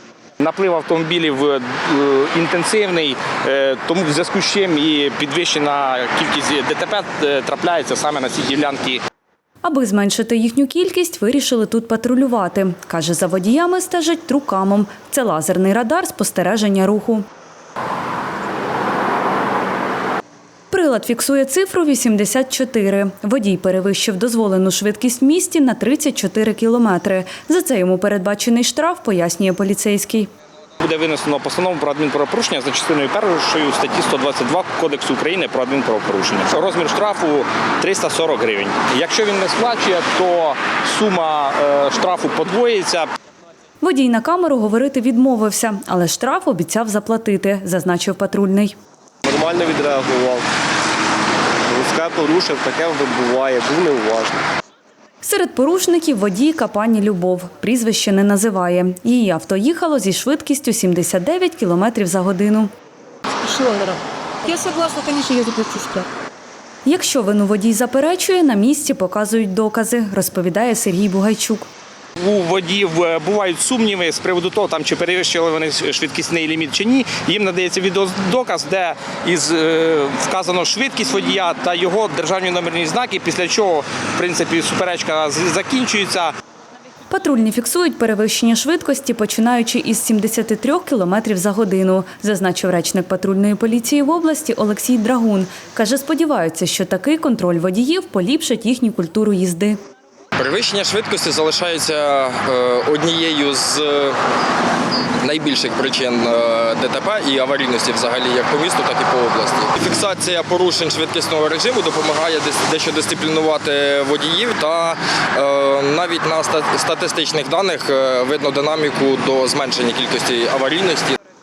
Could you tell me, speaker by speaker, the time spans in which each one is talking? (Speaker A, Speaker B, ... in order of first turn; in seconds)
Speaker A: 0.4-9.0, 30.8-43.1, 72.2-86.3
Speaker B: 9.6-17.2, 20.7-30.3, 43.8-48.7, 55.2-62.7, 66.8-71.7, 87.1-99.8
Speaker C: 49.2-50.5, 51.6-54.4
Speaker D: 63.4-66.1
Speaker E: 100.4-104.2, 105.2-121.2